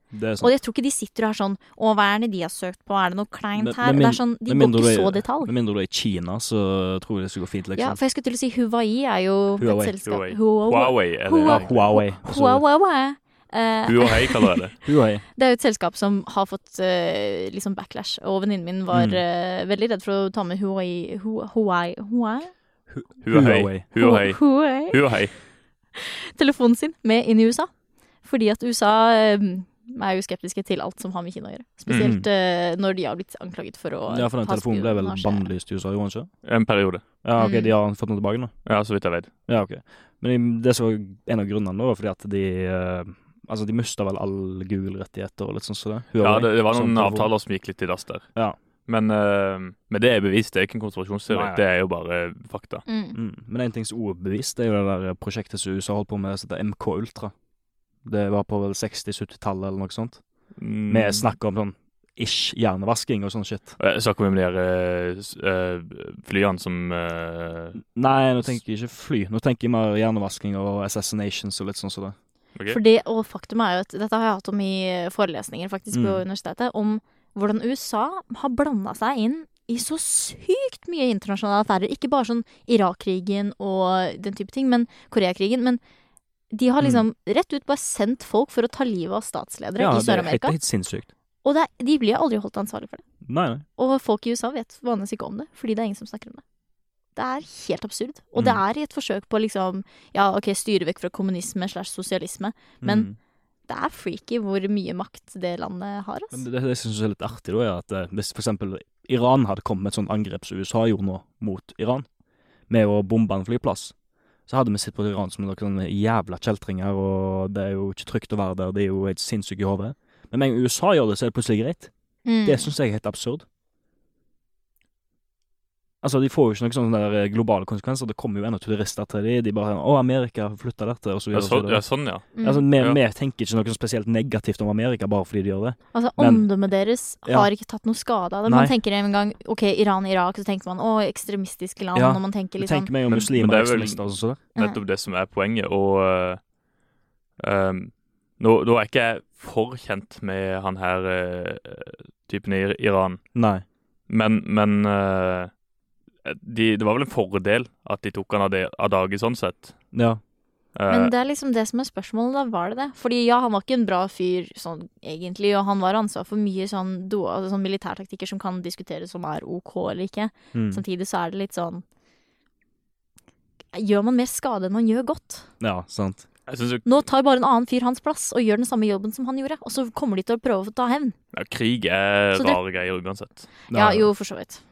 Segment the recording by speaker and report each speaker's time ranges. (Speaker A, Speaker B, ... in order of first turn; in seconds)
Speaker A: 0.1-0.5, 3.6-8.0, 9.6-9.9, 11.5-12.6, 14.8-15.2, 18.9-19.2, 22.9-23.8, 32.0-32.3, 34.1-36.3, 37.2-38.5, 39.5-47.3, 51.3-51.6, 53.1-57.3, 58.0-60.2, 60.9-63.8, 67.8-72.2, 75.9-76.2, 89.8-91.1, 93.2-93.7, 102.8-103.2, 106.3-112.1, 112.7-113.9, 114.5-121.9, 122.4-123.5, 126.0-136.5, 137.2-137.5, 138.5-138.7, 141.9-144.4, 153.3-153.6, 159.9-160.2, 170.5-170.8, 175.6-176.3, 183.7-184.1
Speaker B: 0.4-5.5, 7.8-14.7, 15.3-22.5, 24.0-25.0, 26.0-27.7, 28.2-35.5, 37.4-37.7, 52.9-53.2, 72.7-85.8, 86.5-90.5, 91.4-93.0, 93.8-96.4, 97.2-103.1, 103.7-106.5, 122.2-122.7, 132.3-132.7, 135.9-142.9, 160.9-171.8, 173.7-175.5, 176.8-181.2, 182.3-182.6, 183.7-184.6
Speaker C: 10.0-11.9, 13.8-14.8, 23.2-25.3, 31.9-32.1, 36.4-37.0, 38.7-39.3, 46.2-48.3, 48.9-52.8, 60.6-61.3, 63.8-67.8, 131.3-133.0, 143.1-144.0, 144.6-146.4, 147.4-153.2, 154.1-155.5, 156.2-159.8, 160.8-161.1, 176.5-177.0, 181.3-183.5